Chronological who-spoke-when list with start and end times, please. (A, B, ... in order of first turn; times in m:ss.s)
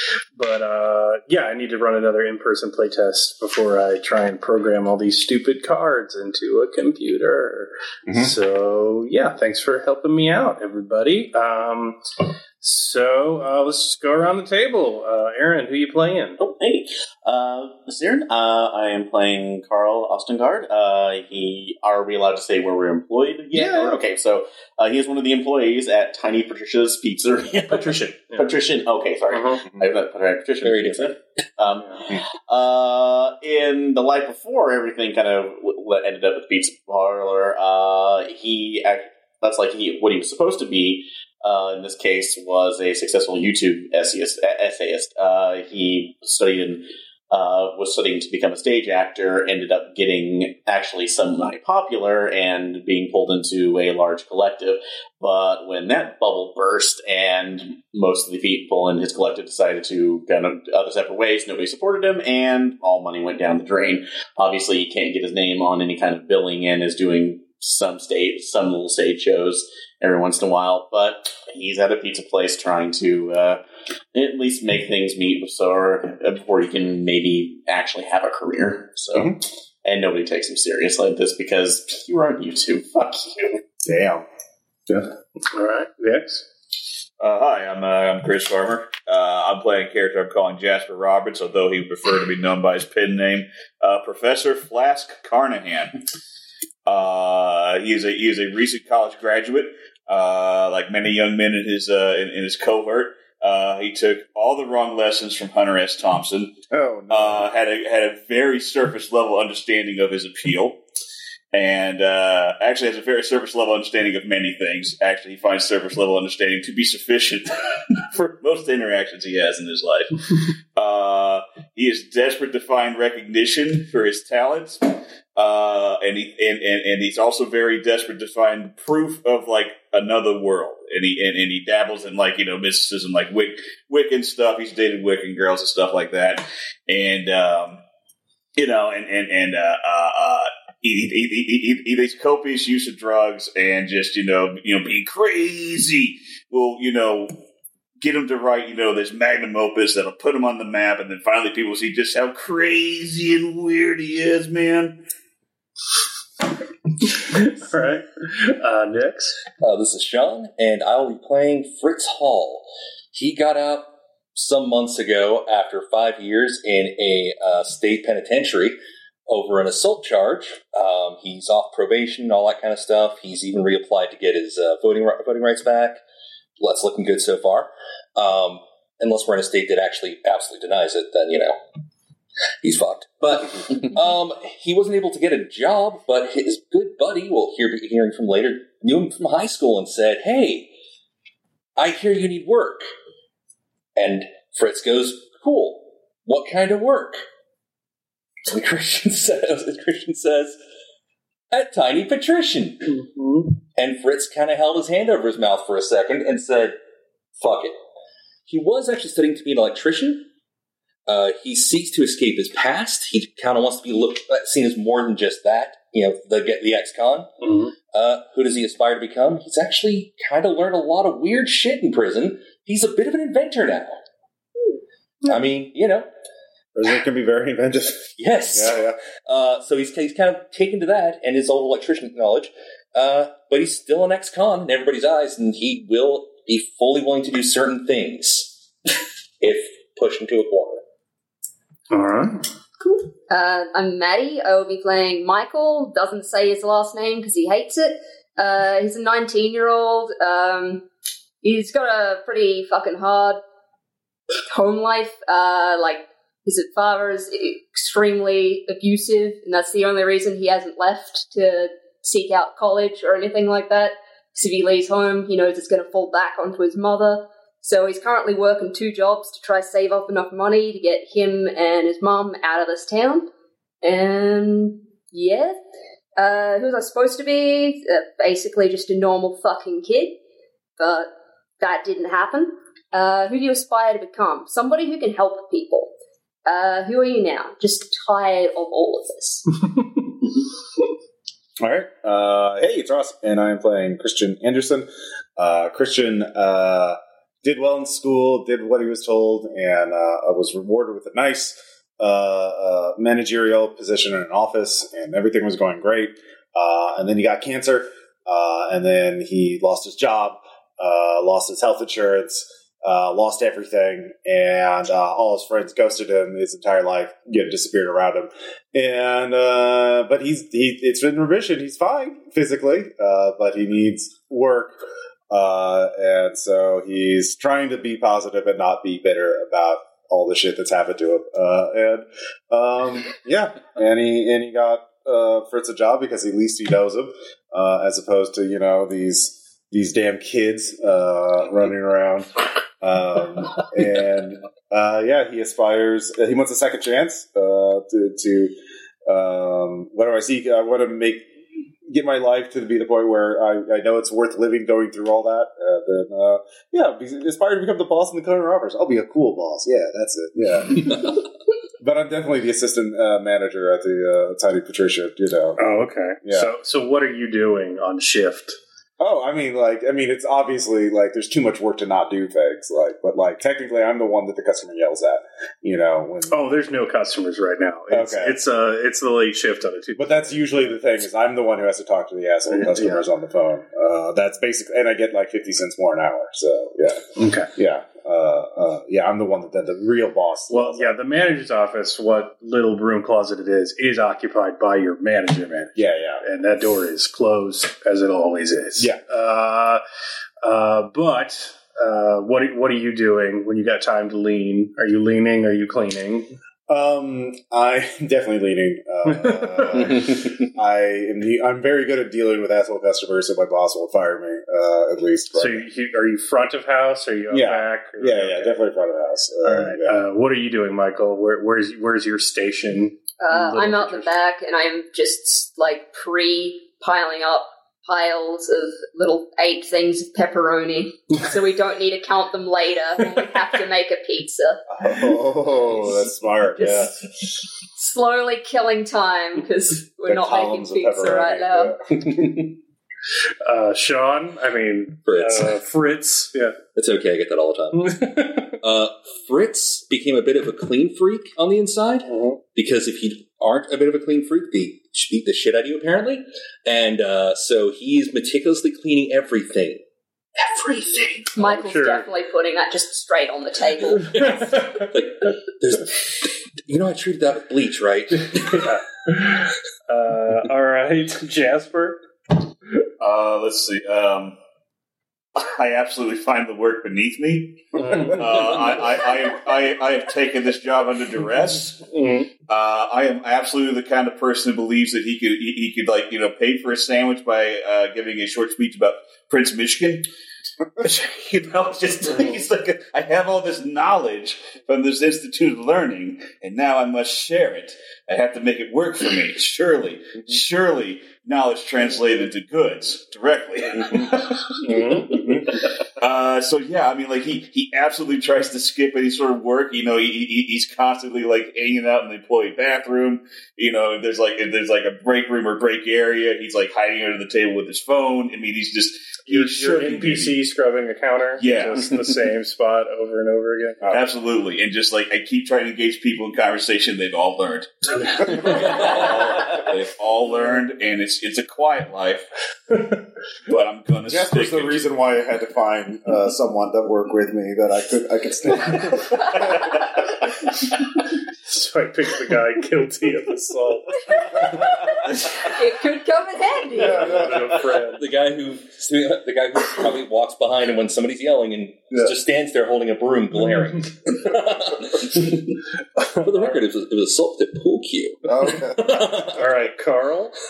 0:00.4-0:12.0 A
0:08.1-0:08.3 B
0:12.6-0:16.4 A
0:16.4-1:13.6 C
0:23.5-0:24.0 A
0:27.5-0:28.5 A
0:29.3-0:29.6 A
0:30.6-0:31.2 D
1:14.1-1:23.6 C
1:23.8-1:24.2 B
1:25.5-1:26.4 A
1:27.2-1:36.0 E
1:36.9-1:46.5 E
1:46.7-1:47.5 B
1:47.1-1:50.8 E
1:51.5-2:04.8 E
2:05.4-2:17.8 E
2:18.6-2:27.3 E
2:28.0-2:35.0 E
2:37.0-2:39.4 A
2:39.6-2:56.0 D
2:56.6-3:01.6 D
3:02.6-3:10.7 D
3:11.8-3:12.9 D
3:14.0-3:17.2 D
3:18.5-3:20.6 D
3:21.5-3:23.0 D
3:22.9-3:23.5 A
3:23.8-3:26.8 D
3:27.4-3:27.8 D
3:28.5-3:30.3 D
3:31.1-3:37.3 D
3:37.4-3:37.7 A
3:37.9-3:44.0 D
3:45.2-3:46.1 D
3:46.8-3:49.0 B
3:48.2-3:58.5 D
3:59.4-4:00.8 D
4:01.9-4:02.4 A
4:02.8-4:10.8 F
4:11.4-4:13.4 F
4:14.5-4:33.3 F
4:33.8-4:35.6 F
4:36.2-4:40.2 F
4:40.8-4:41.1 F
4:41.6-4:45.9 F
4:46.5-4:49.6 F
4:51.6-5:48.5 B
5:49.1-5:51.3 B
5:51.9-6:01.3 B
6:01.8-6:05.6 B
6:05.6-6:08.6 A
6:06.2-6:06.5 B
6:09.0-6:16.4 B
6:16.3-6:20.8 A
6:17.9-6:18.4 B
6:20.0-6:31.0 B
6:22.5-6:23.0 A
6:27.2-6:27.5 A
6:30.5-6:39.8 A
6:35.8-6:36.2 B
6:40.4-6:46.3 A
6:46.7-6:55.6 B
6:49.2-6:50.1 A
6:55.3-6:58.6 A
6:57.3-7:00.0 B
6:59.4-7:04.1 A
7:03.2-7:14.6 F
7:14.7-7:16.9 B
7:16.6-7:17.2 F
7:17.8-7:21.8 F
7:20.0-7:22.0 B
7:23.4-7:26.6 A
7:25.1-7:25.6 D
7:26.8-7:39.8 D
7:27.8-7:28.6 A
7:32.1-7:32.4 A
7:40.4-7:41.3 D
7:41.4-7:44.3 F
7:41.4-7:42.1 A
7:43.8-7:48.7 D
7:48.6-7:52.0 A
7:53.0-7:54.4 E
7:55.4-8:01.8 E
7:57.8-7:58.2 A
8:01.9-8:02.3 A
8:02.5-8:10.1 E
8:10.8-8:24.6 E
8:24.6-8:25.4 A
8:26.0-8:40.4 E
8:39.3-8:43.8 A
8:41.4-8:41.9 E
8:43.9-8:52.3 E
8:53.4-8:54.8 E
8:54.1-8:59.8 B
9:01.4-9:04.6 A
9:04.3-9:07.3 F
9:06.8-9:07.6 B
9:06.8-9:08.0 A
9:07.9-9:15.4 D
9:16.0-9:16.6 A
9:16.2-9:19.4 D
9:18.3-9:19.0 B
9:19.4-9:20.3 A